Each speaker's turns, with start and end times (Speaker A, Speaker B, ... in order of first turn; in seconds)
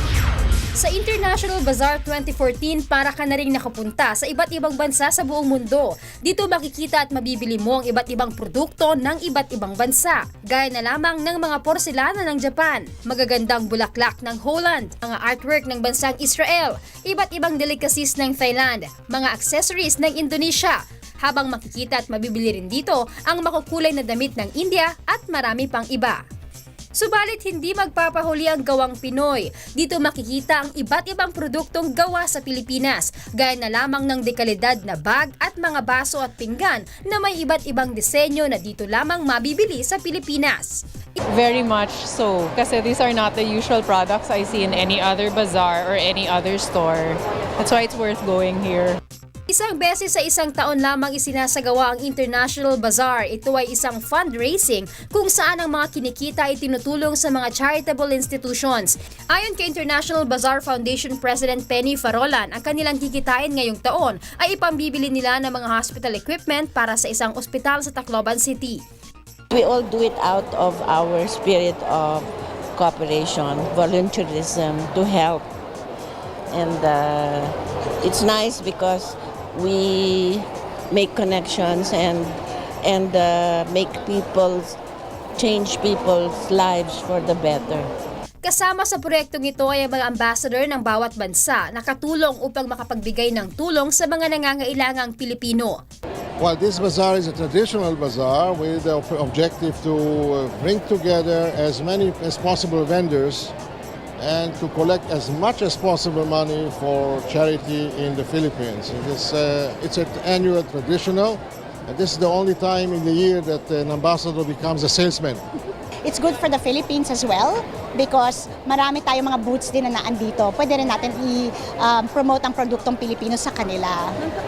Speaker A: 0.8-26.2, 26.9-40.8, 49.5-68.8, 88.4-95.8
Speaker B: 41.3-49.0
Speaker C: 69.5-75.5, 76.5-84.8, 85.4-87.9
Speaker D: 96.4-103.5, 104.2-115.4
Speaker E: 116.0-124.2